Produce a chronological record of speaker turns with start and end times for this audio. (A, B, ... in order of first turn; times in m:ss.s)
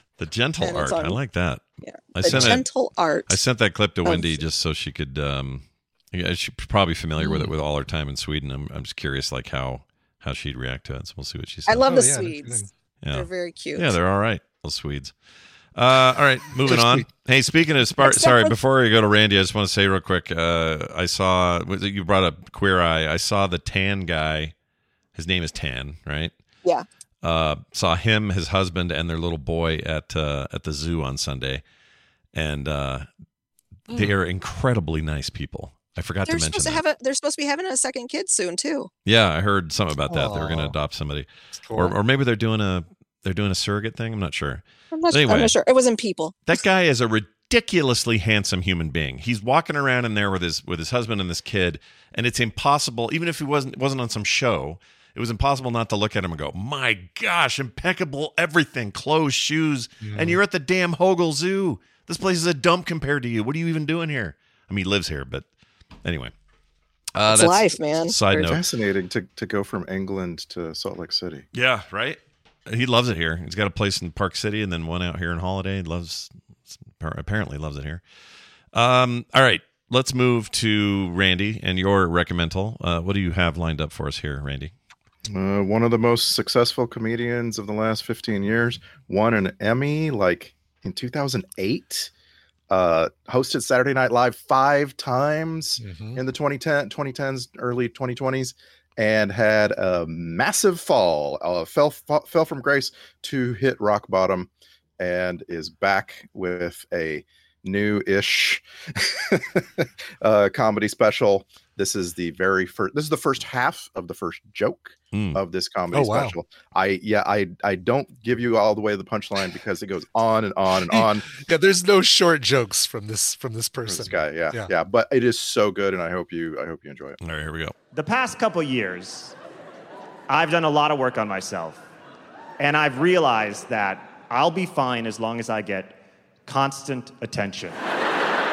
0:00.2-0:02.7 A
0:00.6-0:01.2 B
0:01.8-0:03.4 B
0:02.2-0:02.5 C
0:03.3-0:11.9 A
0:04.0-0:04.4 B
0:07.2-0:07.5 C
0:11.7-0:14.0 B
0:11.8-0:12.7 C
0:13.0-0:15.1 A
0:15.7-0:24.5 A
0:16.6-0:17.1 C
0:18.0-0:18.6 B
0:25.1-0:26.3 A
0:27.2-0:31.6 A
0:32.3-0:33.1 A
0:33.9-0:36.8 A
0:36.2-0:38.9 B
0:39.0-0:45.6 A
0:40.1-0:40.7 C
0:41.6-0:42.0 C
0:44.9-0:46.6 B
0:46.5-1:05.4 A
1:00.0-1:00.4 C
1:06.0-1:06.3 A
1:07.2-1:08.6 A
1:07.3-1:08.5 B
1:08.4-1:11.4 D
1:11.5-1:18.0 A
1:18.7-1:24.7 A
1:25.3-1:32.1 D
1:32.7-2:01.2 D
1:35.8-1:36.2 C
1:55.1-1:55.4 A
1:55.9-1:56.4 C
2:00.9-2:04.7 C
2:03.8-2:07.2 D
2:07.2-2:07.7 A
2:07.9-2:09.3 E
2:10.3-2:11.8 E
2:12.6-2:17.8 E